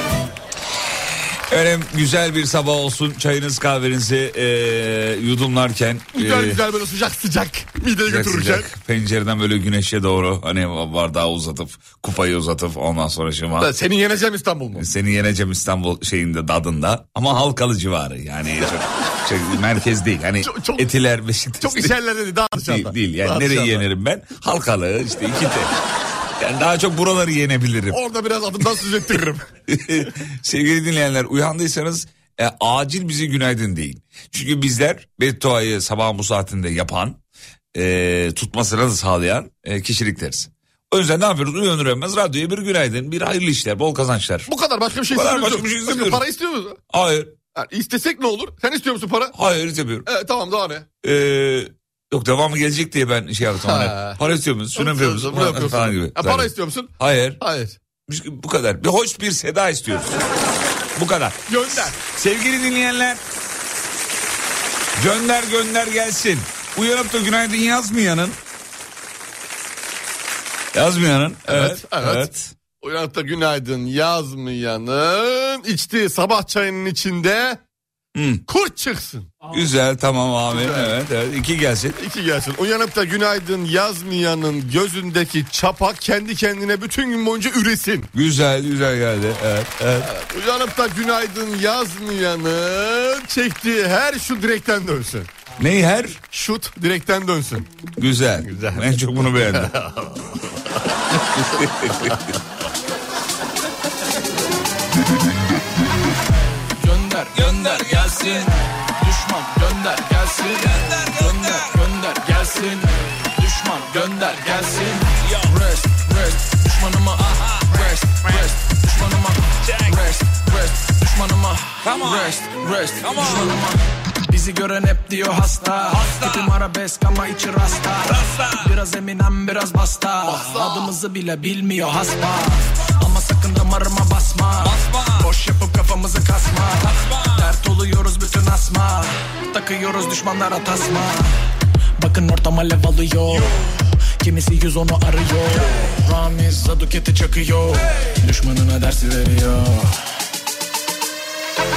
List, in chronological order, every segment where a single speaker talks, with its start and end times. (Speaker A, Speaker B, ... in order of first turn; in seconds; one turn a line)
Speaker A: 1.5-6.6
Speaker B: 6.1-8.7
Speaker A: 8.1-13.7
Speaker B: 13.6-14.8
Speaker A: 14.8-22.0
Speaker B: 20.4-20.9
Speaker B: 21.6-23.9
Speaker A: 22.6-25.7
Speaker A: 26.4-28.0
Speaker B: 27.9-29.5
Speaker A: 29.7-37.2
Speaker A: 37.7-44.5
Speaker B: 44.5-46.8
Speaker A: 45.1-46.2
Speaker A: 46.9-47.3
Speaker B: 47.5-49.4
Speaker A: 49.3-50.1
Speaker B: 50.1-50.9
Speaker A: 51.0-57.4
Speaker B: 53.5-54.2
Speaker B: 54.8-57.8
Speaker A: 58.1-60.1
Speaker A: 61.0-63.2
Speaker B: 61.5-62.0
Speaker A: 65.0-68.4
Speaker A: 70.7-72.5
Speaker B: 71.5-77.6
Speaker A: 78.2-78.4
Speaker B: 78.5-79.4
Speaker A: 79.5-82.0
Speaker B: 80.5-80.9
Speaker B: 82.0-88.1
Speaker A: 88.1-90.1
Speaker B: 90.0-95.3
Speaker A: 95.6-96.2
Speaker B: 96.3-97.7
Speaker A: 98.0-99.7
Speaker B: 98.5-100.2
Speaker A: 101.3-102.2
Speaker C: 106.8-141.4
Speaker A: 107.3-108.5
Speaker A: 110.6-111.8
Speaker A: 115.2-115.6
Speaker A: 117.2-118.3
Speaker A: 119.6-120.0
Speaker A: 121.8-122.3
Speaker A: 123.0-123.6
Speaker A: 125.9-126.5
Speaker A: 128.0-128.7
Speaker A: 130.3-130.7
Speaker A: 134.6-135.3
Speaker A: 137.1-137.5
Speaker C: 142.0-150.0